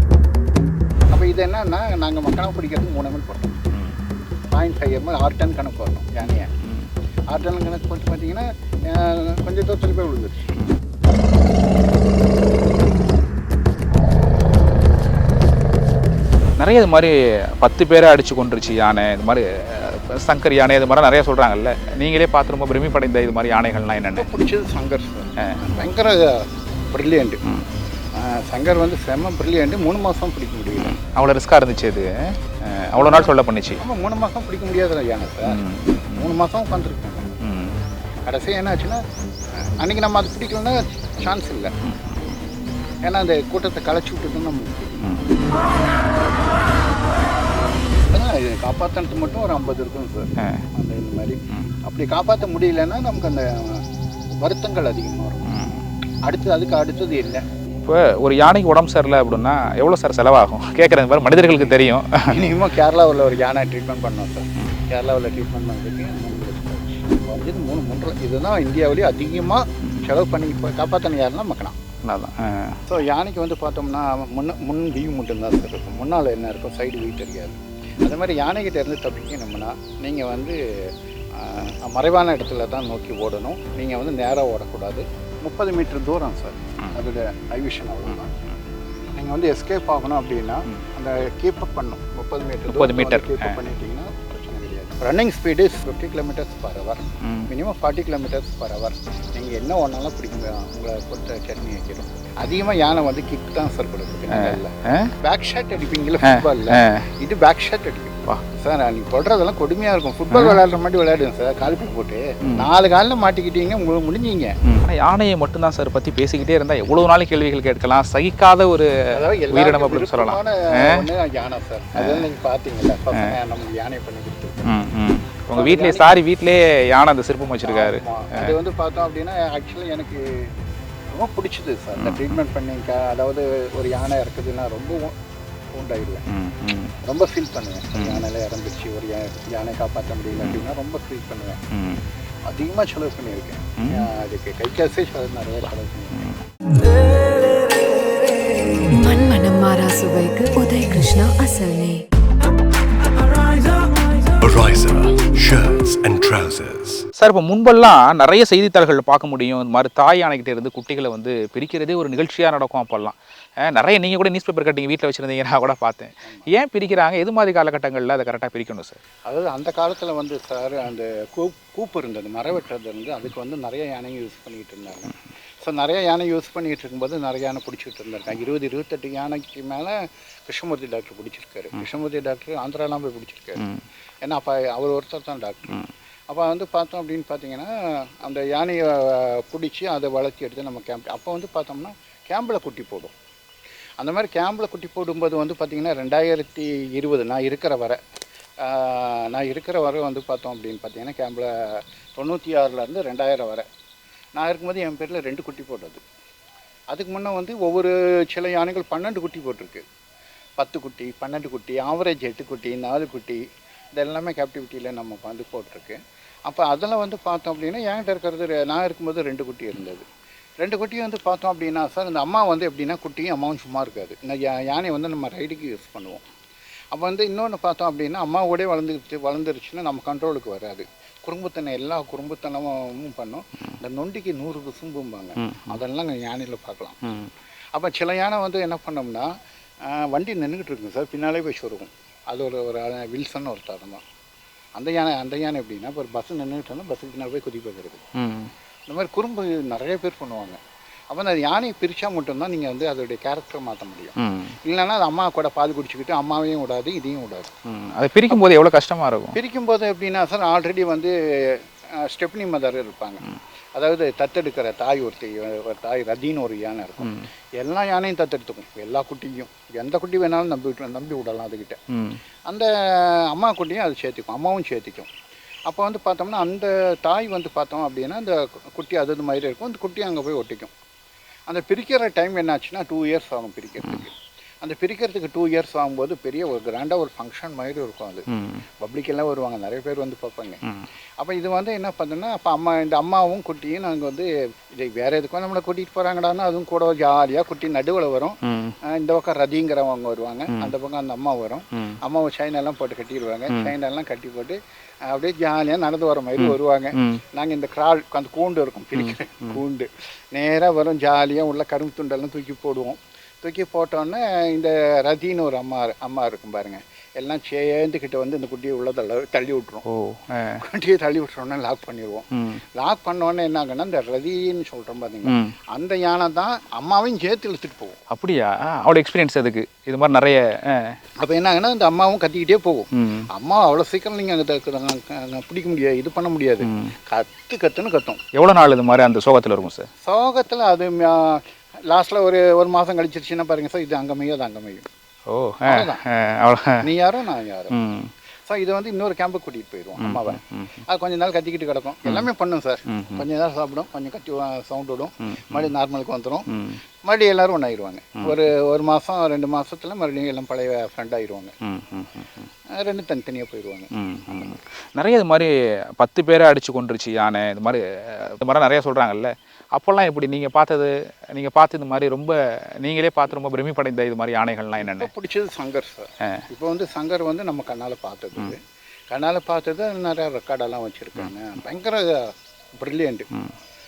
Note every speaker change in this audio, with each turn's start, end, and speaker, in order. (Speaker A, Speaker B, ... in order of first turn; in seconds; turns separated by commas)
Speaker A: 1.1-3.6, Speaker B: 3.7-4.0, Speaker A: 4.5-6.5, Speaker B: 6.6-6.9, Speaker A: 7.3-10.6, Speaker B: 16.6-24.3, Speaker A: 24.1-27.4, Speaker A: 28.1-31.0, Speaker B: 30.8-33.8, Speaker A: 33.0-35.6, Speaker B: 35.4-36.4, Speaker A: 36.1-37.4, Speaker B: 37.4-37.8, Speaker A: 38.2-39.0, Speaker A: 39.6-41.7, Speaker B: 41.8-42.2, Speaker A: 43.0-45.2, Speaker B: 45.0-45.3, Speaker A: 48.0-55.6, Speaker B: 50.4-50.6, Speaker B: 55.5-55.9, Speaker A: 56.2-57.4, Speaker B: 57.8-62.5, Speaker A: 62.3-71.8, Speaker B: 69.8-70.1, Speaker B: 72.0-72.8, Speaker A: 72.9-88.3, Speaker A: 89.1-114.5, Speaker B: 92.7-93.6, Speaker B: 97.2-97.5, Speaker B: 104.3-105.1, Speaker B: 106.2-107.0, Speaker B: 110.3-110.6, Speaker B: 114.6-121.0, Speaker A: 119.1-124.8, Speaker B: 121.9-122.3, Speaker B: 123.1-123.3, Speaker B: 124.6-128.6, Speaker A: 125.5-126.1, Speaker A: 127.6-130.5, Speaker A: 131.1-135.2, Speaker B: 132.0-132.3, Speaker A: 135.7-136.2, Speaker B: 136.3-136.9, Speaker A: 137.0-141.6, Speaker B: 137.9-138.2, Speaker B: 141.7-142.0, Speaker A: 142.5-146.4, Speaker B: 143.8-144.1, Speaker B: 146.1-146.4, Speaker C: 148.9-152.0, Speaker D: 154.4-157.1, Speaker B: 157.2-169.0, Speaker A: 166.2-166.5, Speaker A: 169.2-183.7, Speaker B: 183.6-183.8, Speaker A: 184.2-193.1, Speaker A: 194.0-198.0, Speaker A: 198.6-203.7, Speaker A: 204.3-206.0, Speaker A: 206.9-209.8, Speaker A: 210.6-213.4, Speaker A: 213.9-220.1, Speaker A: 220.6-226.2, Speaker A: 226.9-237.0, Speaker B: 235.4-235.8, Speaker B: 237.0-237.3, Speaker A: 237.7-239.3, Speaker A: 239.8-244.0, Speaker A: 244.8-248.1, Speaker B: 248.1-248.5, Speaker A: 248.9-250.6, Speaker A: 251.1-257.5, Speaker B: 254.2-254.6, Speaker B: 257.6-259.4, Speaker A: 259.3-271.8, Speaker B: 267.0-267.2, Speaker B: 271.9-272.2, Speaker A: 272.5-275.1, Speaker A: 275.7-280.7, Speaker A: 281.5-288.3, Speaker B: 288.3-288.6, Speaker A: 288.8-290.6, Speaker A: 291.2-319.8, Speaker B: 298.4-298.8, Speaker B: 306.4-307.2, Speaker B: 308.9-309.6, Speaker B: 319.9-320.6, Speaker A: 320.6-328.0, Speaker B: 325.2-325.6, Speaker B: 328.1-331.0, Speaker A: 331.2-338.2, Speaker B: 332.9-333.3, Speaker B: 336.6-336.9, Speaker B: 338.3-339.9, Speaker A: 340.0-344.9, Speaker B: 345.3-346.8, Speaker A: 345.6-346.0, Speaker A: 346.8-347.8, Speaker B: 347.7-348.1, Speaker A: 348.5-356.5, Speaker B: 350.0-350.8, Speaker B: 352.9-353.2, Speaker B: 356.5-356.8, Speaker A: 357.0-361.5, Speaker B: 361.6-362.5, Speaker A: 362.7-364.6, Speaker B: 363.9-375.1, Speaker A: 374.8-383.3